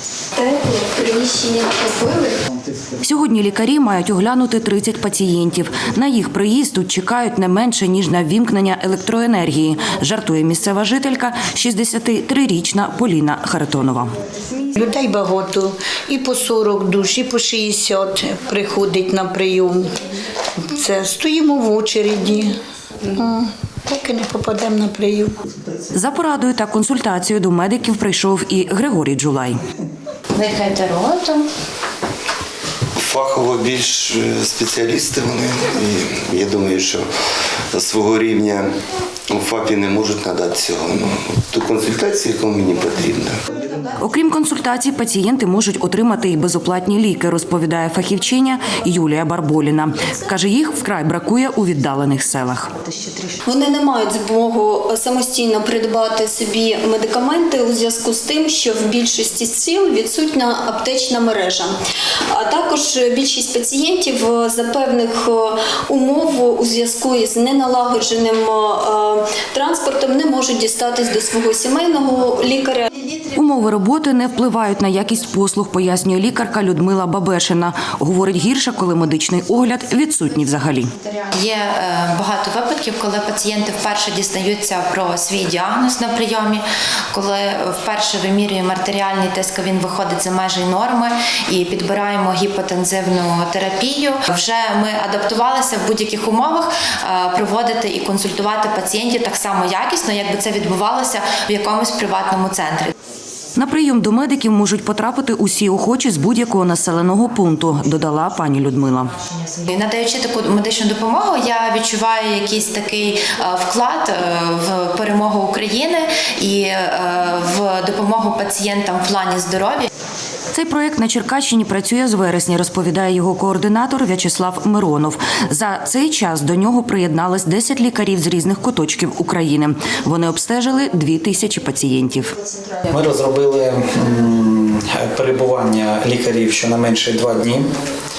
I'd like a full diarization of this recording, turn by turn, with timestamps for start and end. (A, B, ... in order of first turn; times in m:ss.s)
0:00.4-0:02.4 A
0:03.0-0:14.1 B
0:14.7-0:19.9 C
0:20.7-0:22.6 C
0:23.1-0:25.3 C
0:25.9-0:29.6 B
0:30.3-0:31.5 D
0:33.0-0:37.1 E
0:37.7-0:38.7 E
0:39.3-0:43.4 E
0:44.0-0:52.7 B
0:53.4-1:01.7 A
1:02.3-1:12.9 A
1:13.3-1:20.9 B
1:21.3-1:42.9 D
1:43.6-1:49.1 B
1:49.5-1:59.9 D
2:00.5-2:12.3 B
2:12.9-2:17.7 F